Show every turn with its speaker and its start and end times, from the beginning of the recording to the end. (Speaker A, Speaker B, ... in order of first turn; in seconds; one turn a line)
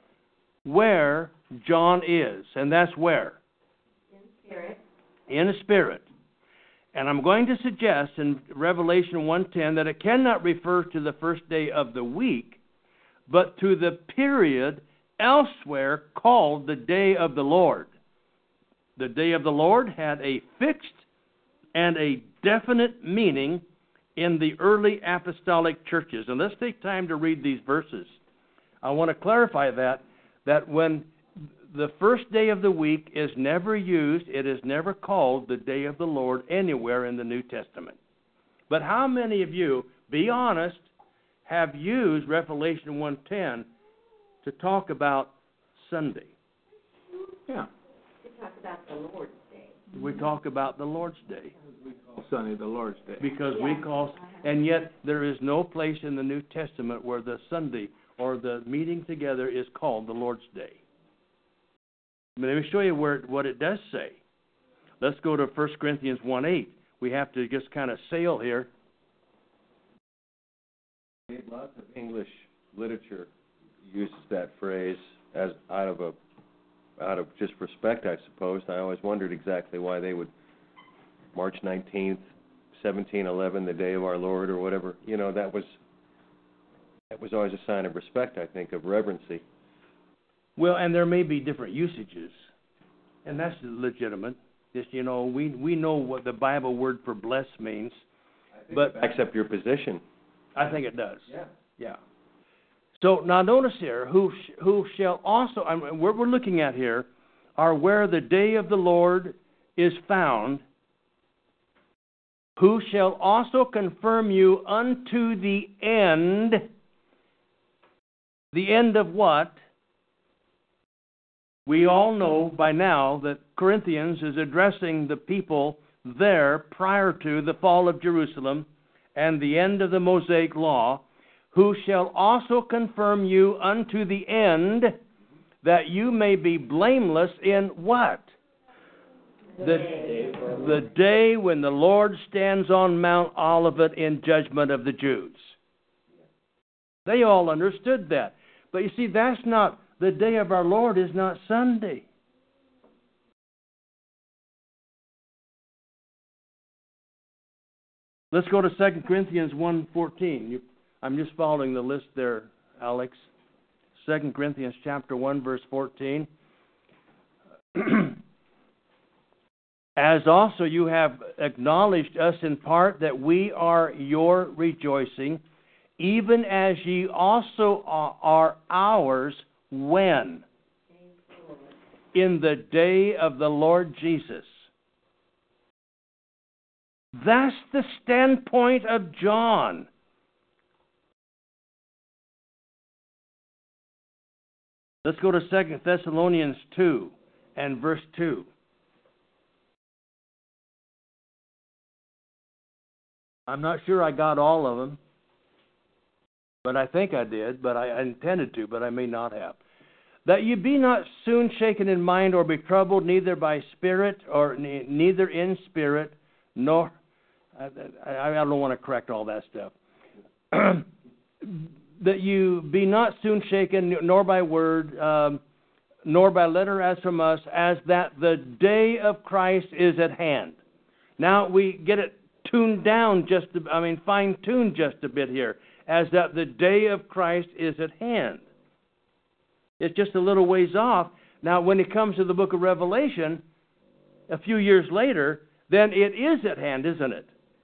Speaker A: 0.6-3.4
Speaker B: 4.1-4.8
Speaker A: 5.3-6.0
Speaker A: 6.9-12.6
Speaker A: 13.3-17.9
Speaker A: 19.0-21.0
Speaker A: 21.7-23.6
Speaker A: 24.1-28.1
Speaker A: 28.8-31.1
Speaker A: 31.7-38.0
Speaker A: 38.7-40.9
Speaker A: 41.5-43.7
Speaker A: 44.4-46.3
Speaker B: 48.2-49.8
Speaker A: 49.9-51.5
Speaker C: 51.7-53.3
Speaker A: 53.2-60.8
Speaker B: 53.5-54.4
Speaker A: 62.4-64.2
Speaker A: 65.0-68.7
Speaker D: 71.3-73.3
Speaker D: 73.8-76.2
Speaker D: 77.0-80.3
Speaker D: 81.3-85.7
Speaker D: 87.1-89.4
Speaker A: 90.6-92.3
Speaker A: 93.2-98.0
Speaker D: 98.6-100.0
Speaker A: 98.7-99.0
Speaker A: 100.5-102.0
Speaker A: 103.0-110.6
Speaker A: 112.6-116.7
Speaker A: 118.5-119.6
Speaker A: 121.7-135.0
Speaker A: 135.6-138.3
Speaker B: 139.6-140.4
Speaker A: 139.6-145.5
Speaker C: 139.8-140.5
Speaker A: 147.1-152.1
Speaker A: 158.3-163.2
Speaker A: 163.9-166.3
Speaker A: 167.7-168.2
Speaker A: 169.9-175.4
Speaker A: 176.0-180.4
Speaker B: 180.9-181.7
Speaker A: 182.1-184.6
Speaker A: 187.1-189.9
Speaker A: 195.0-198.5
Speaker A: 203.5-205.0
Speaker A: 206.6-209.6
Speaker A: 210.2-216.9
Speaker A: 217.6-219.7
Speaker A: 220.5-220.9
Speaker A: 221.4-225.4
Speaker A: 226.0-230.6
Speaker A: 231.2-238.4
Speaker A: 239.8-243.4
Speaker A: 244.3-247.3